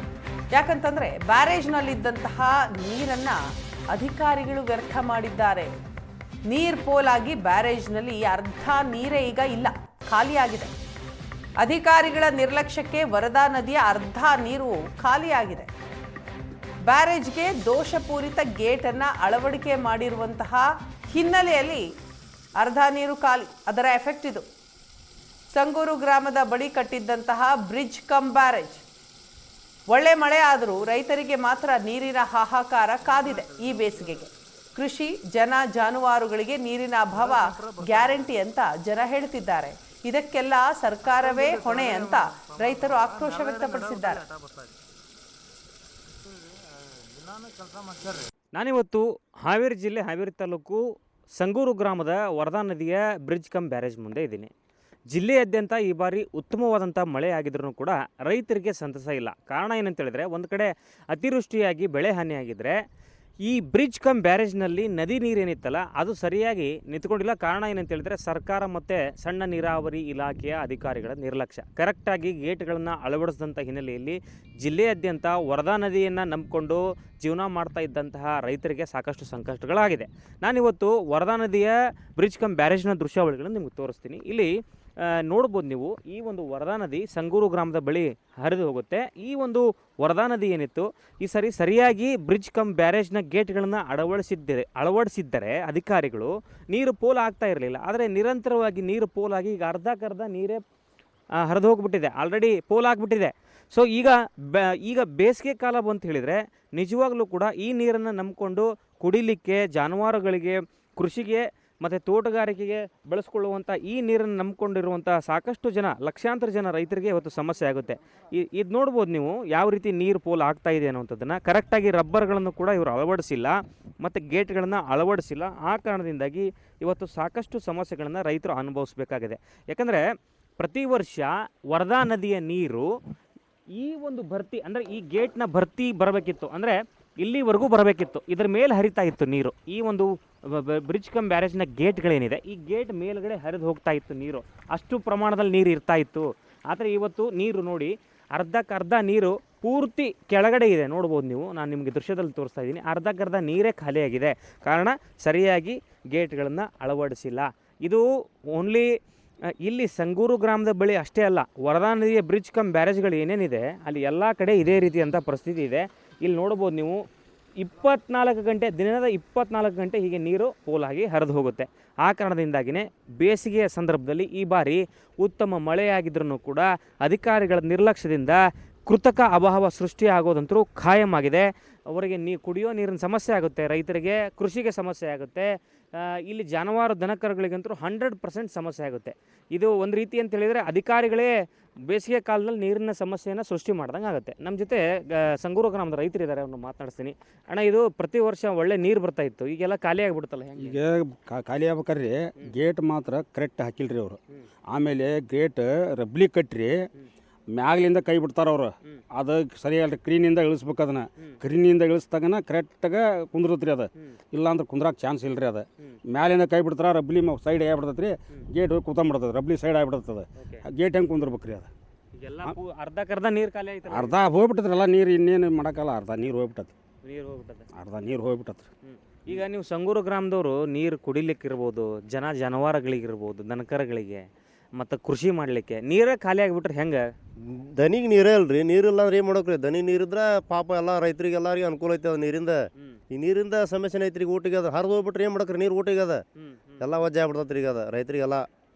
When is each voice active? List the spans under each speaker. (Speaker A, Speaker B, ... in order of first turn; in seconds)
Speaker A: 0.5-3.4, 3.9-5.7, 6.5-10.7, 11.6-15.7, 16.8-21.9, 22.6-24.4, 25.5-28.8, 29.9-44.2
Speaker B: 33.5-34.0, 37.2-38.2, 41.1-44.7, 47.1-50.8, 51.4-54.5, 55.1-62.8, 63.4-84.5, 85.0-100.6, 101.4-130.0, 130.6-132.9, 133.7-158.9, 159.6-167.0, 167.6-191.3, 191.9-200.8, 220.4-220.7, 222.2-224.2, 227.0-227.7, 228.8-234.2, 234.8-237.0, 246.4-247.1
Speaker C: 200.6-206.9, 207.5-221.7, 223.9-226.7, 227.8-228.7
Speaker D: 237.4-246.2, 246.8-248.5